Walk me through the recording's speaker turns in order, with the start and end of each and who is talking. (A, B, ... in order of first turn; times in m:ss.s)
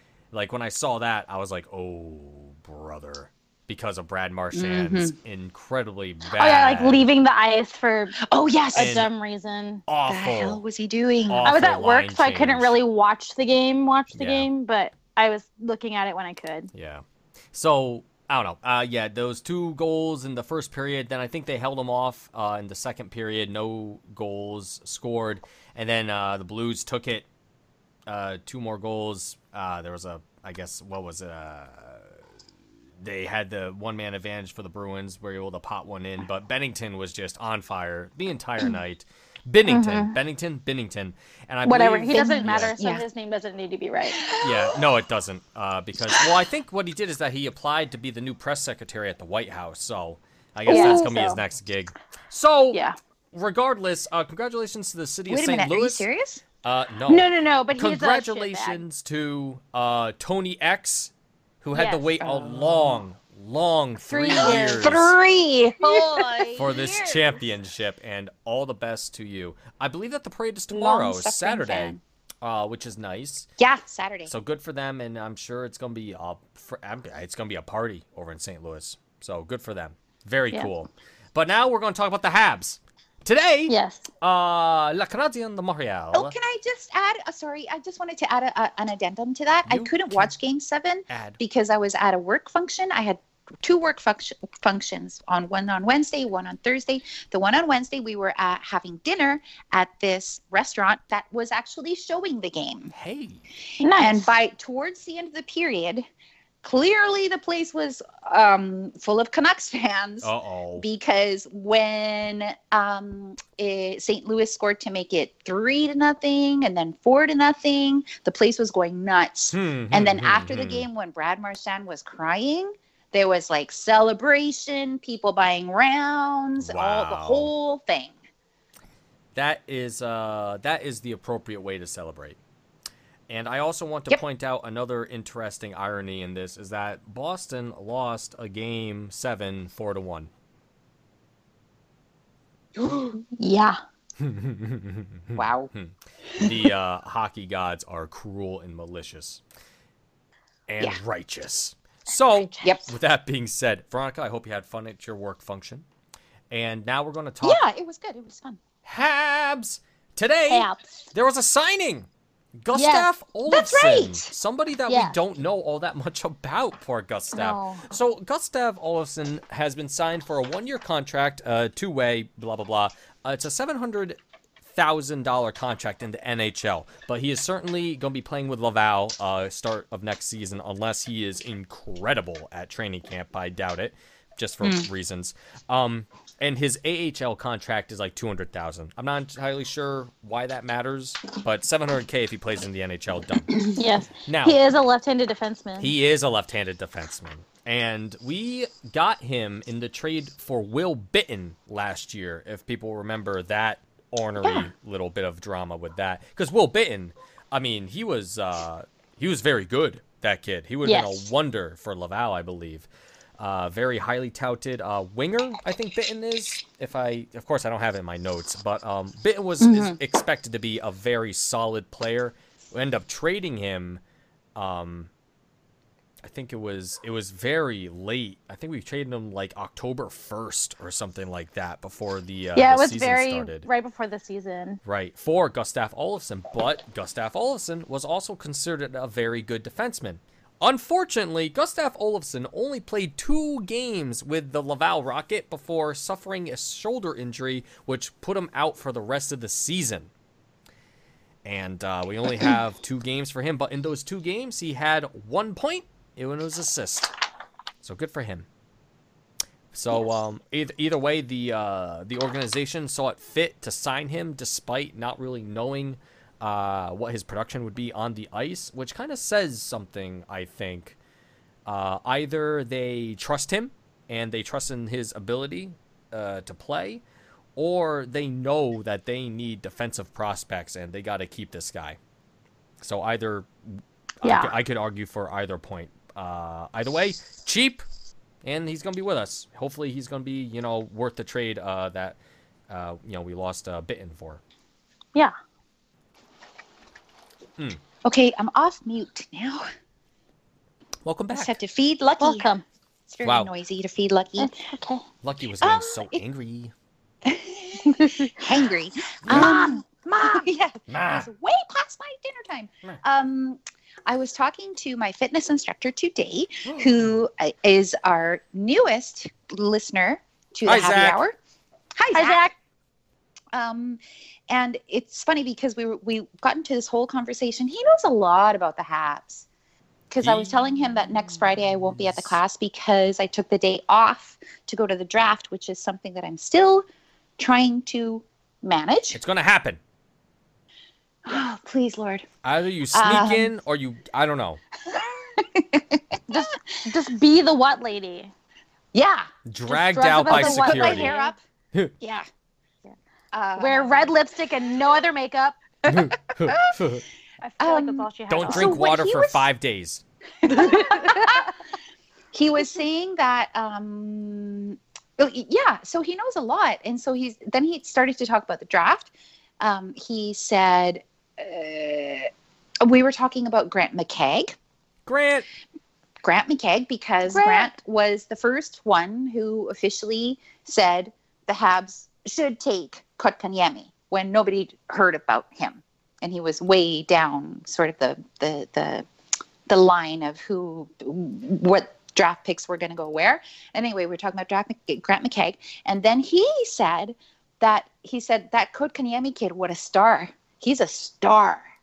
0:00.3-0:07.1 A
0:04.5-0:05.2 B
0:06.3-0:09.8 C
0:08.2-0:09.0 B
0:08.8-0:09.1 A
0:09.9-0:10.6 A
0:10.1-0:11.5 B
0:11.3-0:12.7 A
0:11.4-0:16.7 C
0:14.1-0:14.5 A
0:16.7-0:27.3 A
0:28.1-0:32.1 A
0:33.0-0:42.7 A
0:39.7-0:40.2 C
0:41.6-0:44.3 C
0:42.1-0:43.0 B
0:44.1-0:44.8 B
0:44.4-0:52.8 A
0:50.7-0:51.4 C
0:50.7-0:51.0 B
0:53.3-0:56.1 A
0:55.3-0:56.4 B
0:56.6-1:05.2 A
0:57.1-0:58.8 C
1:01.7-1:02.1 C
1:02.2-1:03.0 B
1:04.1-1:05.2 C
1:04.3-1:07.1 B
1:05.8-1:06.9 C
1:06.6-1:13.5 A
1:10.7-1:12.0 B
1:13.6-1:14.3 B
1:14.3-1:26.3 A
1:23.7-1:24.1 C
1:26.1-1:42.9 B
1:29.6-1:30.3 A
1:31.1-1:31.4 A
1:42.9-1:43.4 A
1:43.8-1:44.3 C
1:43.8-1:46.0 B
1:46.6-2:08.1 B
1:50.2-1:50.8 A
1:59.5-2:00.8 A
2:06.6-2:07.5 A
2:09.3-2:12.4 A
2:13.3-2:20.3 A
2:22.8-2:23.2 B
2:23.3-2:23.8 C
2:24.2-2:29.4 A
2:25.3-2:25.7 B
2:30.7-2:35.8 A
2:32.4-2:32.7 C
2:32.6-2:32.9 B
2:36.5-2:37.6 A
2:37.4-2:38.6 B
2:38.8-2:42.1 A
2:40.5-2:41.0 C
2:42.6-2:54.2 A
2:42.7-2:43.1 C
2:43.5-2:44.3 B
2:44.9-2:45.2 C
2:47.3-2:47.8 C
2:54.7-3:13.5 A
3:04.6-3:04.9 B
3:13.7-3:15.9 C
3:14.2-3:14.6 A
3:15.8-3:44.0 A
3:30.8-3:31.3 C
3:39.6-3:40.0 B
3:44.6-3:45.1 A
3:46.2-3:53.7 A
3:52.6-3:54.8 C
3:54.8-4:10.1 A
4:11.4-4:17.1 A
4:17.8-4:18.5 A
4:19.7-4:31.0 A
4:31.6-4:37.0 A
4:37.6-4:42.0 A
4:42.8-4:47.8 A
4:44.2-4:44.5 C
4:48.4-4:52.2 A
4:52.7-4:54.4 A
4:58.0-4:59.7 B
5:01.0-5:01.6 A
5:01.3-5:02.5 B
5:02.2-5:02.6 C
5:03.1-5:04.5 B
5:03.2-5:03.5 A
5:04.4-5:05.0 C
5:05.2-5:06.7 A
5:05.6-5:06.2 B
5:07.2-5:21.3 B
5:08.0-5:08.3 C
5:09.2-5:09.6 A
5:09.3-5:09.8 C
5:10.9-5:11.3 A
5:16.6-5:17.2 A
5:20.6-5:21.2 A
5:22.0-5:22.5 B
5:22.1-5:22.5 C
5:23.5-5:29.5 B
5:30.1-5:36.8 B
5:30.2-5:30.5 A
5:32.0-5:32.4 A
5:37.4-5:39.2 B
5:39.1-5:39.8 A
5:41.2-5:42.2 B
5:42.4-5:44.6 A
5:42.9-5:43.5 B
5:44.9-5:46.5 B
5:46.3-5:48.3 C
5:48.9-5:49.3 B
5:49.4-5:51.1 A
5:49.7-5:51.3 C
5:50.2-5:51.4 B
5:52.0-5:52.2 B
5:53.3-5:54.1 B
5:53.6-5:55.6 C
5:55.8-5:56.8 B
5:55.8-5:57.0 A
5:57.4-5:58.8 C
5:57.6-5:59.5 B
5:58.3-6:00.0 A
6:00.4-6:01.5 B
6:00.5-6:01.5 C
6:02.3-6:12.3 B
6:12.8-6:14.6 B
6:15.0-6:15.4 A
6:16.2-6:29.1 B
6:17.3-6:17.7 C
6:29.7-6:41.6 B